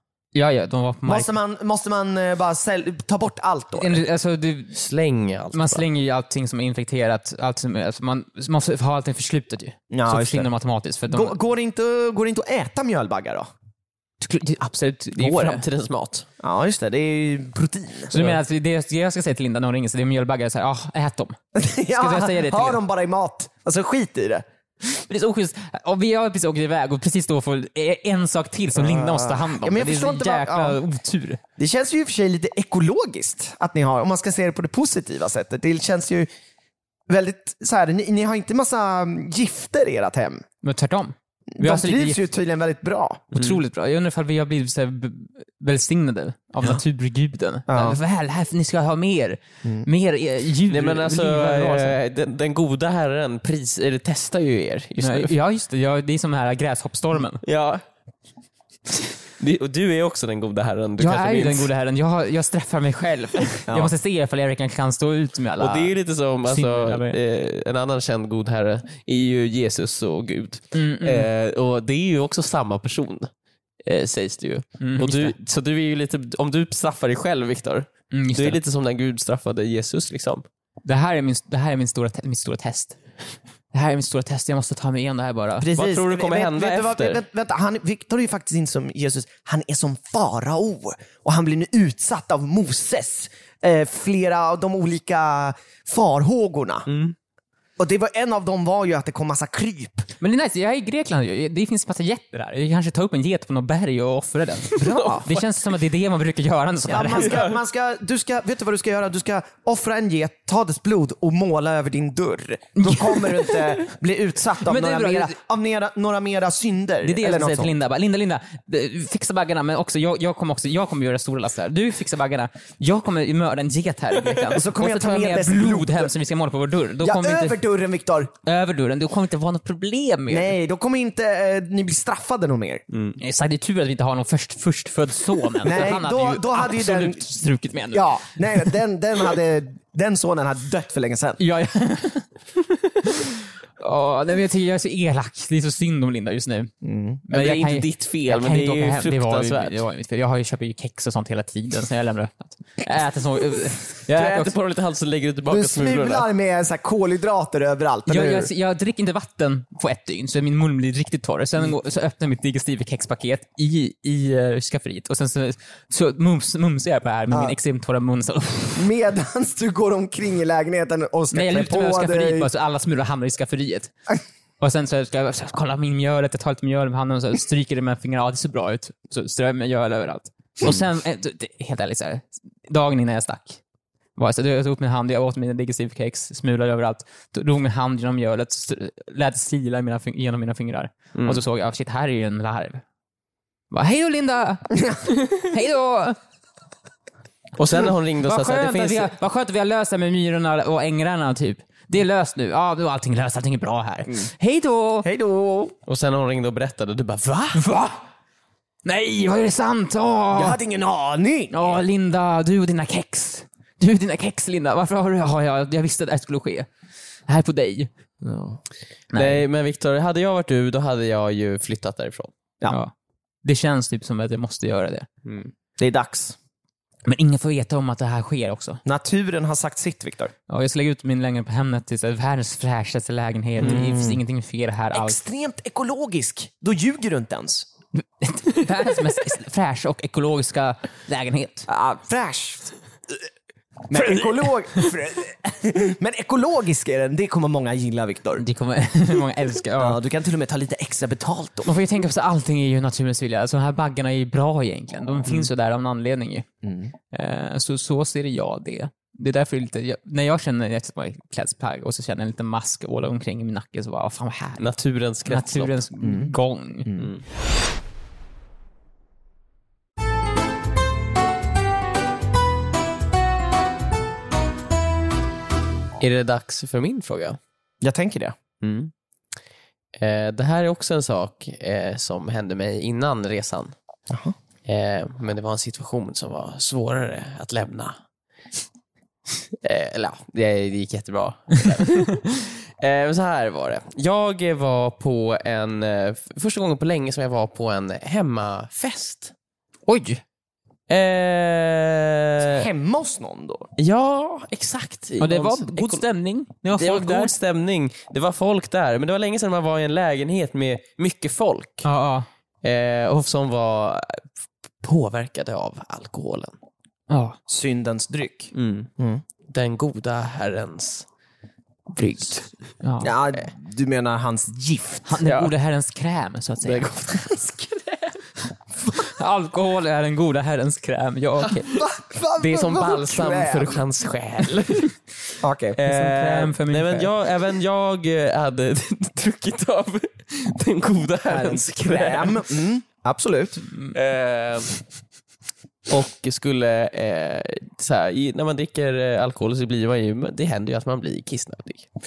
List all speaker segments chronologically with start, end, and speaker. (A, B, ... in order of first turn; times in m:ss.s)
0:00.4-0:01.3 A
0:01.1-0:04.0 B
0:03.8-0:04.8 A
0:04.7-0:05.8 C
0:05.5-0:11.4 A
0:09.9-0:10.5 B
0:11.1-0:13.5 B
0:14.2-0:15.6 A
0:15.2-0:16.3 C
0:16.4-0:18.2 B
0:18.1-0:21.4 A
0:21.6-0:24.4 B
0:21.9-0:22.8 A
0:24.8-0:31.4 A
0:28.8-0:30.8 B
0:31.6-0:36.3 B
0:37.1-0:40.4 B
0:40.6-0:42.2 A
0:41.6-0:43.3 B
0:43.3-0:43.6 C
0:43.3-0:52.0 A
0:47.7-0:48.0 B
0:50.7-0:55.3 C
0:55.0-0:57.4 A
0:57.4-0:57.8 C
0:59.4-1:01.7 C
1:01.0-1:07.2 A
1:03.7-1:03.9 B
1:05.6-1:13.3 C
1:10.7-1:11.3 A
1:13.8-1:20.4 C
1:14.8-1:15.4 A
1:18.1-1:18.6 A
1:20.8-1:23.0 A
1:23.7-1:25.7 A
1:25.6-1:36.9 B
1:25.7-1:27.2 C
1:36.9-1:37.2 C
1:37.8-1:40.1 B
1:40.2-1:47.4 A
1:44.8-1:45.3 B
1:44.8-1:45.3 C
1:46.9-1:57.7 B
1:47.2-1:47.6 C
1:52.8-1:53.8 A
1:54.6-1:55.4 A
1:57.0-2:07.6 A
2:04.6-2:06.1 B
2:07.0-2:08.3 B
2:08.4-2:10.5 A
2:10.3-2:12.8 B
2:12.9-2:13.2 C
2:13.2-2:18.8 A
2:15.6-2:17.2 B
2:17.9-2:21.4 B
2:21.4-2:22.3 A
2:23.0-2:26.7 A
2:26.8-2:27.2 B
2:27.2-2:34.5 A
2:27.3-2:29.8 C
2:34.1-2:36.3 C
2:35.5-2:38.5 B
2:38.1-2:48.9 A
2:47.3-2:47.6 B
2:48.8-2:52.5 B
2:51.3-2:53.9 A
2:54.6-3:03.6 A
3:04.2-3:12.8 A
3:11.2-3:11.4 C
3:13.7-3:16.2 A
3:17.6-3:19.1 C
3:18.2-3:25.1 A
3:25.0-3:25.8 B
3:25.9-3:27.6 C
3:27.5-3:28.0 A
3:28.8-3:30.6 A
3:30.3-3:31.8 B
3:31.5-3:36.7 A
3:37.3-3:37.9 A
3:38.2-3:38.6 B
3:39.1-3:39.4 A
3:39.1-3:42.3 C
3:43.4-3:45.1 A
3:45.2-3:45.5 C
3:45.8-3:46.4 B
3:47.1-3:48.8 A
3:48.8-3:50.3 B
3:50.5-3:55.2 A
3:53.6-3:54.2 B
3:54.9-3:57.7 B
3:58.2-4:01.7 A
4:01.7-4:03.1 B
4:03.9-4:08.4 B
4:08.4-4:10.0 A
4:09.8-4:11.7 B
4:11.6-4:16.5 A
4:16.6-4:16.9 B
4:17.1-4:24.7 A
4:24.6-4:25.8 C
4:25.3-4:26.9 A
4:26.0-4:26.3 B
4:27.0-4:27.2 C
4:36.0-4:37.4 C
4:37.8-4:38.4 B
4:38.6-4:38.9 C
4:40.0-4:43.7 C
4:44.1-4:44.4 B
4:44.7-4:48.0 C
4:49.6-4:59.3 C
4:59.9-5:00.2 A
5:00.9-5:02.7 C
5:02.4-5:03.7 B
5:03.8-5:06.0 C
5:05.2-5:07.3 A
5:06.8-5:11.9 C
5:11.8-5:12.3 A
5:12.6-5:14.2 C
5:14.8-5:16.6 C
5:17.1-5:17.4 A
5:17.5-5:19.2 B
5:18.5-5:18.9 C
5:19.5-5:21.1 C
5:22.0-5:23.1 A
5:22.1-5:22.4 C
5:23.0-5:25.1 B
5:25.1-5:26.9 A
5:25.2-5:25.5 C
5:26.6-5:28.0 C
5:27.1-5:27.5 B
5:29.0-5:31.7 A
5:31.5-5:31.8 C
5:31.7-5:33.8 B
5:32.4-5:34.9 C
5:35.4-5:35.8 B
5:35.8-5:42.4 C
5:35.8-5:37.1 A
5:41.3-5:43.6 B
5:43.9-5:44.8 C
5:45.9-5:51.9 C